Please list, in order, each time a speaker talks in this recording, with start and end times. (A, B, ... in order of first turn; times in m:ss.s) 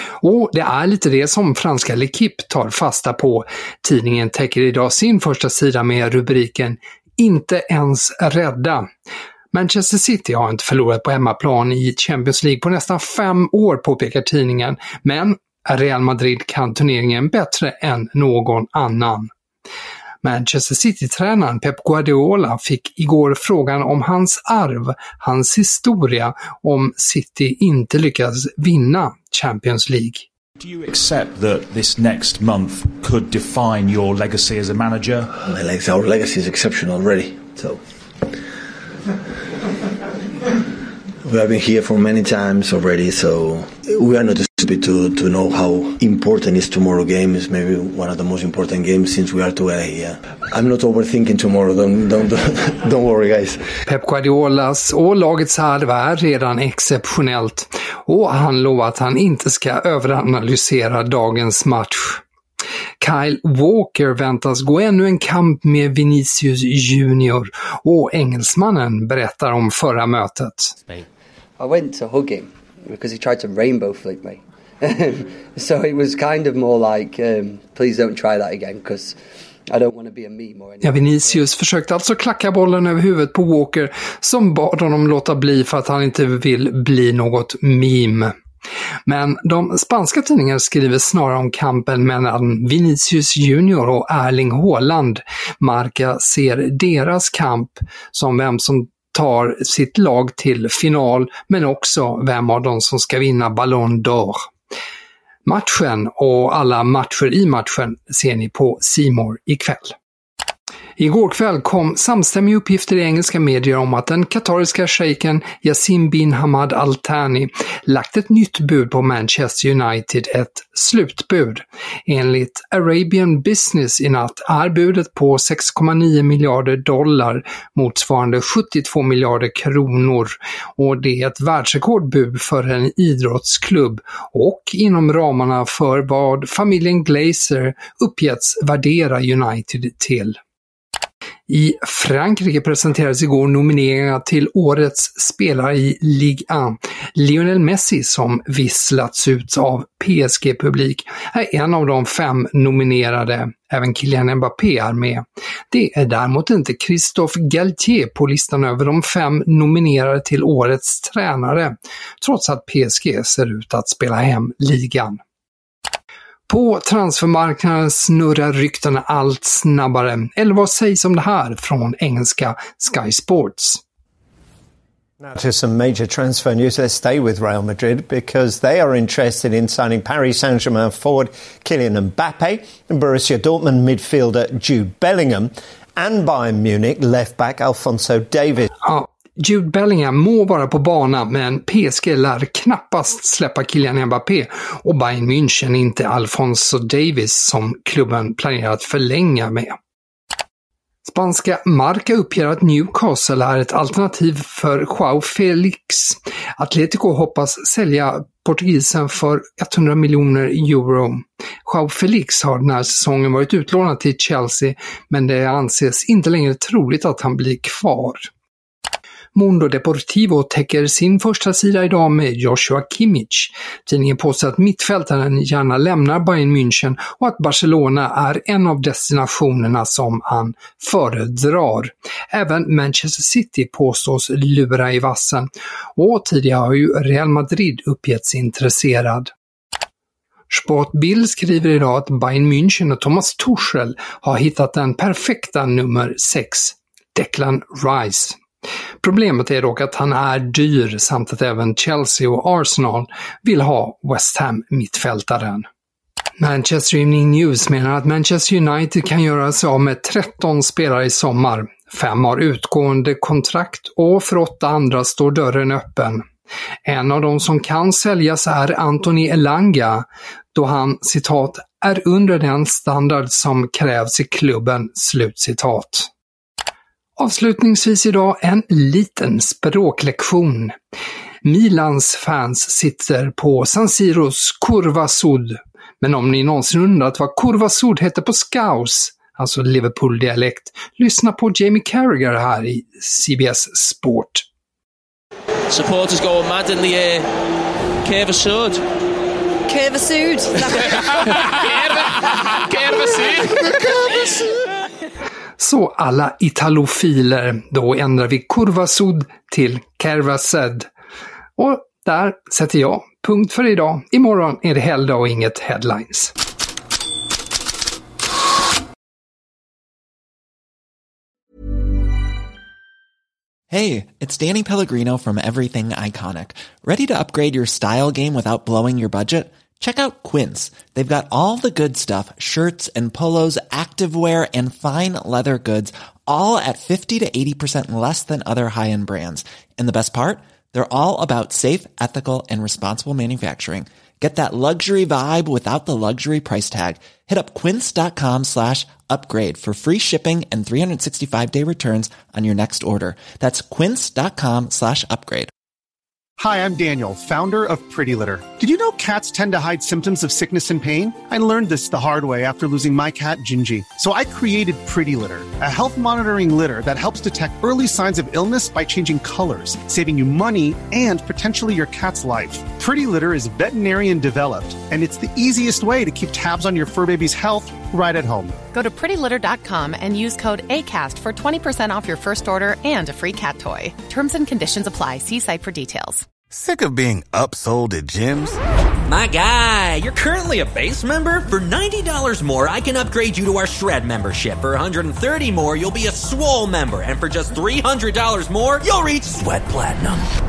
0:00.2-0:08.9 A
0:09.5-0:19.3 A
0:20.2-0:30.3 A
0:30.6-0:35.4 B
0:35.5-0:37.8 C
0:41.2-0:53.6 C
0:53.9-1:02.2 A
1:03.0-1:10.8 A
1:11.6-1:21.4 D
1:20.8-1:28.3 A
1:29.1-1:44.5 A
1:45.5-1:50.0 A
1:51.0-2:20.4 A
2:21.5-2:45.2 A
2:46.5-2:53.8 A
2:55.2-3:08.7 E
3:08.8-3:19.8 A
3:21.0-3:38.3 A
3:39.4-3:59.3 A
4:00.5-4:08.4 A
4:09.0-4:15.7 A
4:16.4-4:26.2 A
4:26.8-4:36.1 A
4:37.2-4:40.8 A
4:41.4-4:54.5 A
4:55.7-4:57.2 F
4:58.0-4:58.8 F
4:59.7-5:03.6 F
5:05.6-5:10.9 A
5:11.6-5:16.3 A
5:23.7-5:55.5 G
5:56.4-6:18.6 H
6:18.7-6:26.2 I
6:26.5-6:28.6 J
6:29.1-6:40.3 K